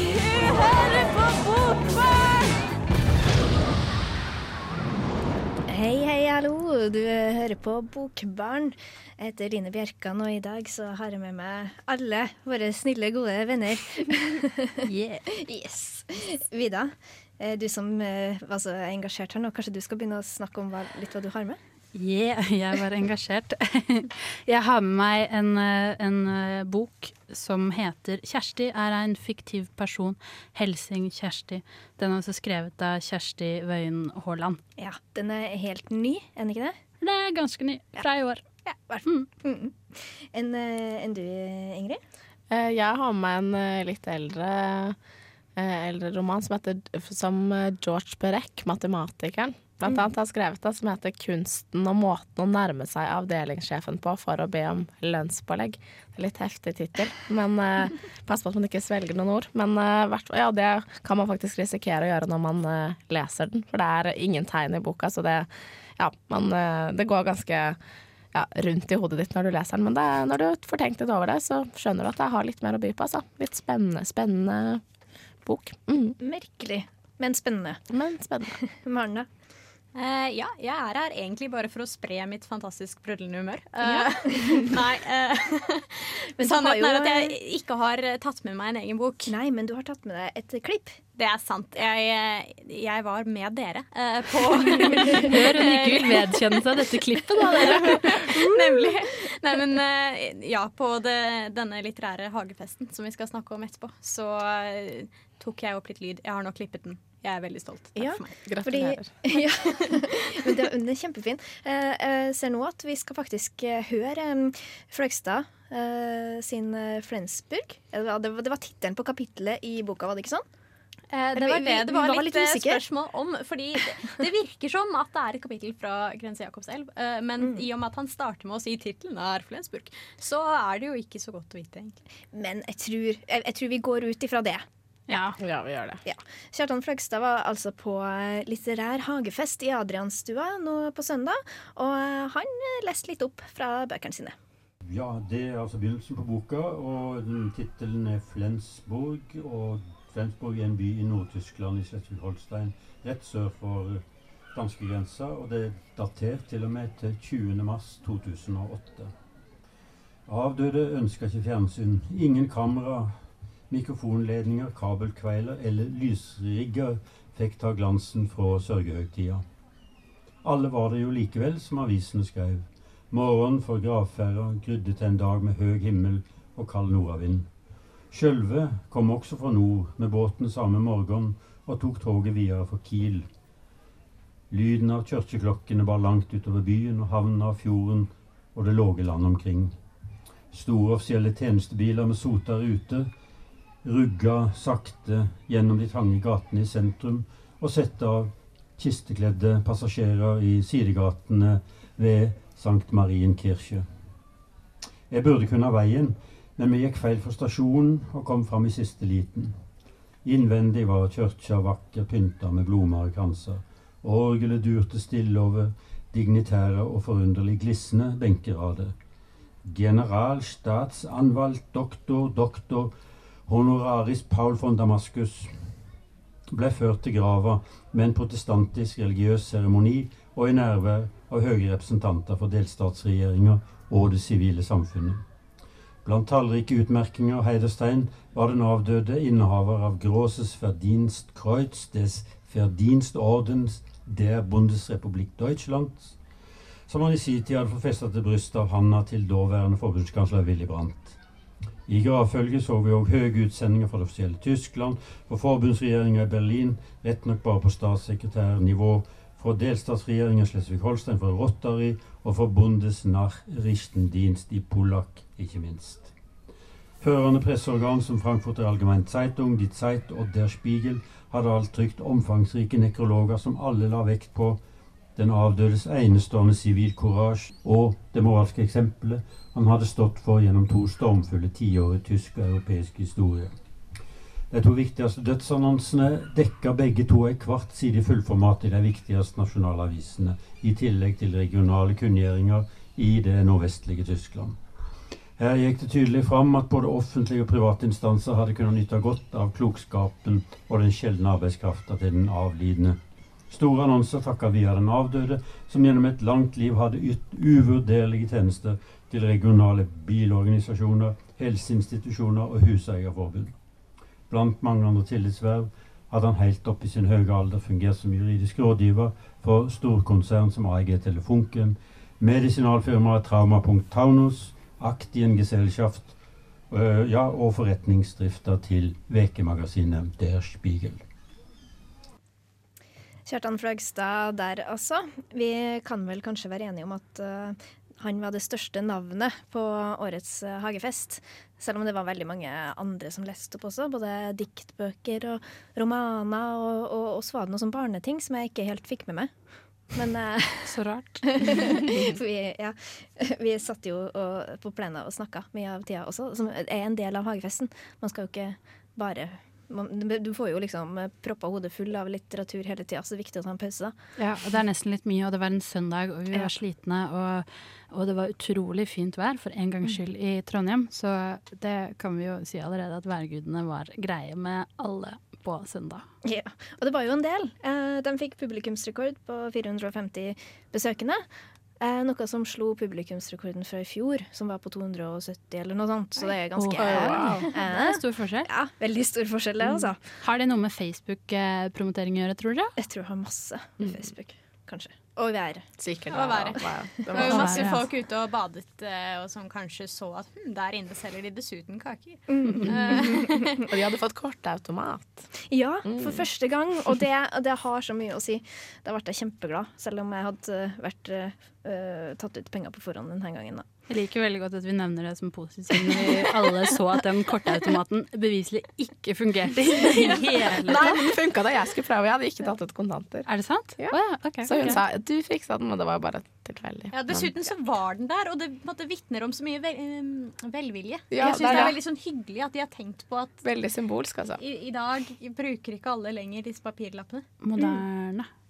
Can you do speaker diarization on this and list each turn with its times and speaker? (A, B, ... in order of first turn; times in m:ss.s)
0:05.7-0:21.6 A
0:14.8-0:15.3 B
0:22.0-0:34.6 B
0:34.8-0:36.8 A
0:37.0-0:38.4 B
0:38.7-0:42.0 A
0:42.5-0:45.0 C
0:45.6-1:07.8 C
1:08.3-1:14.8 C
1:15.4-1:16.2 C
1:16.2-1:17.8 A
1:17.9-1:18.6 C
1:18.6-1:19.3 A
1:20.0-1:29.4 D
1:23.8-1:24.7 A
1:26.4-1:27.4 A
1:29.3-1:31.0 A
1:31.2-1:36.4 D
1:34.8-1:38.4 B
1:37.7-1:48.4 D
1:48.0-2:00.4 A
1:48.4-1:49.2 C
2:01.1-2:12.0 D
2:01.4-2:02.8 A
2:12.3-2:14.6 A
2:15.1-2:15.4 B
2:15.4-2:16.0 C
2:16.0-2:24.4 A
2:24.8-2:34.0 E
2:34.5-2:39.1 E
2:40.3-2:43.1 E
2:43.7-2:49.4 E
2:50.4-2:57.5 E
2:58.1-3:03.3 E
3:04.5-3:09.8 E
3:10.5-3:13.1 E
3:13.8-3:23.8 E
3:25.1-3:29.6 E
3:30.2-3:39.0 E
3:39.6-3:42.9 E
3:43.5-3:45.7 E
3:46.5-3:55.2 E
3:56.0-4:06.2 E
4:06.9-4:11.2 E
4:11.9-4:26.1 E
4:27.0-4:34.6 E
4:35.2-4:43.6 E
4:44.5-4:54.6 E
4:55.4-5:03.0 E
5:03.5-5:13.5 E
5:14.3-5:26.1 E
5:26.7-5:31.0 E
5:33.3-5:49.3 A
5:49.9-6:04.0 A
5:50.7-5:51.3 B
6:04.2-6:16.0 B
6:16.2-6:21.2 A
6:21.8-6:30.0 A
6:26.6-6:28.5 B
6:26.8-6:27.5 C
6:30.2-6:32.7 B
6:32.8-6:35.7 A
6:35.8-6:37.6 C
6:36.1-6:43.5 D
6:37.2-6:37.9 B
6:37.2-6:37.5 A
6:42.3-6:43.5 A
6:42.5-6:42.8 B
6:43.7-6:45.3 C
6:45.5-6:53.7 A
6:45.9-6:46.2 C
6:53.9-7:01.0 B
7:00.6-7:07.3 C
7:03.3-7:04.8 B
7:06.9-7:13.4 D
7:11.1-7:11.8 C
7:13.4-7:14.4 C
7:14.4-7:17.3 D
7:17.4-7:18.3 B